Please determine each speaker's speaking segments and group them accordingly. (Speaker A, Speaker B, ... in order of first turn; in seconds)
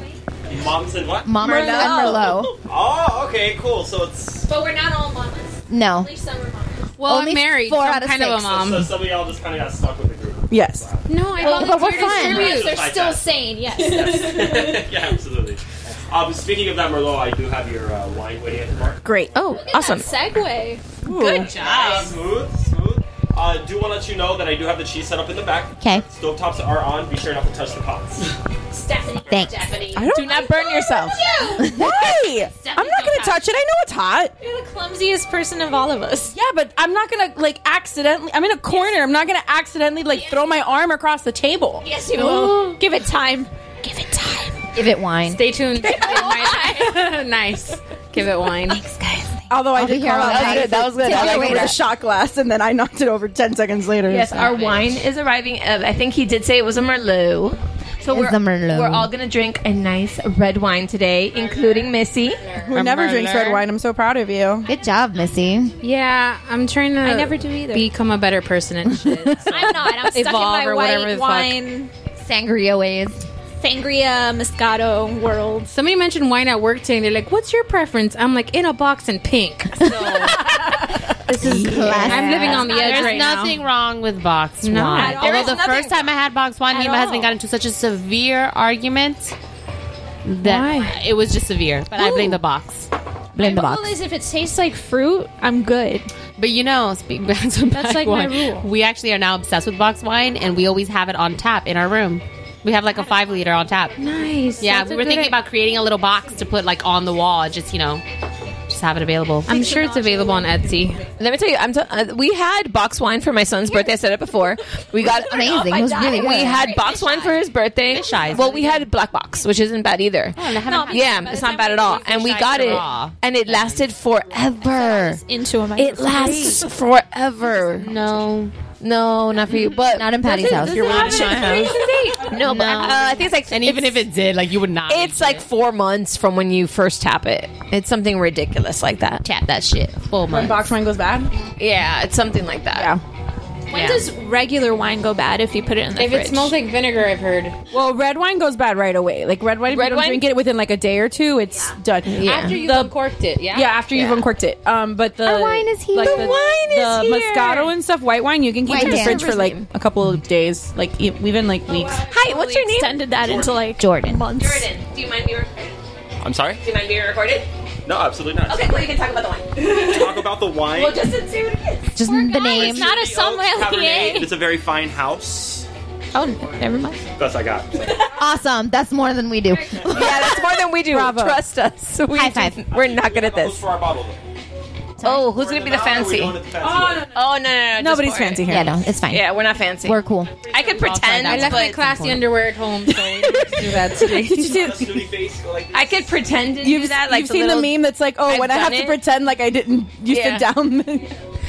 Speaker A: 0.5-1.4, 2.6-4.5, 8.4-11.2, 12.2-19.2, 21.4-28.3, 163.2-163.5, 166.2-166.6, 167.8-168.8, 169.6-171.0, 172.5-175.7, 177.2-178.1, 179.8-180.1, 182.7-184.2, 185.2-187.2, 194.4-196.4
Speaker B: 1.2-2.5, 5.7-6.1, 7.0-8.6, 11.4-12.5, 25.8-26.0, 29.3-29.6, 31.6-32.1, 44.7-45.4, 49.7-51.8, 58.0-59.1, 64.7-65.7, 68.9-69.3, 72.2-73.2, 81.3-82.7, 93.3-94.0, 115.0-116.7, 129.9-131.1, 132.4-132.9, 155.2-156.4, 158.7-159.5, 163.7-164.2, 171.9-172.9, 178.1-180.4, 182.1-182.6, 185.0-185.2, 188.5-190.4
Speaker C: 1.4-2.4, 19.3-20.2, 30.1-31.2, 50.2-51.8, 54.0-62.5, 85.2-85.9, 111.2-125.2, 125.7-127.9, 128.8-131.7, 132.2-134.1, 134.9-139.2, 141.6-142.9, 149.7-150.3, 152.2-152.5, 153.9-154.2, 156.0-157.7, 158.7-159.7, 161.9-163.6, 164.3-165.8, 166.6-167.5, 168.4-171.9, 179.8-183.6, 185.0-186.4, 187.1-192.2, 195.7-199.0, 200.1-200.5
Speaker D: 1.5-2.3, 10.5-10.9, 19.0-19.4, 21.0-21.5, 29.9-30.6, 31.6-34.3, 36.3-42.7, 49.5-54.6, 62.6-64.7, 130.2-131.8, 140.3-141.3, 142.7-143.0, 147.7-152.9, 153.5-162.0, 180.7-181.4, 186.6-186.9, 187.7-188.8, 192.9-195.1, 196.6-201.1
Speaker E: 4.4-6.9, 11.4-14.8, 19.5-20.9, 28.8-29.8, 30.6-31.8, 34.4-36.3, 41.9-44.6, 67.0-67.9, 69.4-71.9, 73.6-75.7, 82.0-83.5, 84.9-85.8, 86.7-87.3, 90.4-90.9, 92.0-92.4, 93.3-96.1, 97.7-98.7, 109.5-110.7, 116.5-117.0, 120.6-122.8, 124.6-126.7, 143.7-146.5, 161.9-164.7, 172.0-174.4, 176.1-177.0
Speaker F: 7.0-8.9, 11.1-12.8, 45.3-48.8, 65.8-71.5, 75.7-80.4, 81.2-83.5, 84.6-85.3, 104.0-105.4, 109.5-111.0, 131.1-132.3, 145.9-147.6, 152.2-153.7, 191.2-194.7
Speaker G: 21.1-22.1, 29.4-30.1, 32.5-33.4, 54.4-54.9, 62.6-63.6, 82.6-89.3, 90.2-92.9, 96.4-104.0, 104.6-108.0, 108.7-109.8, 116.8-117.3, 117.9-118.9, 120.3-123.9, 127.8-128.5, 130.6-135.4, 139.2-140.7, 143.7-144.1, 190.5-192.1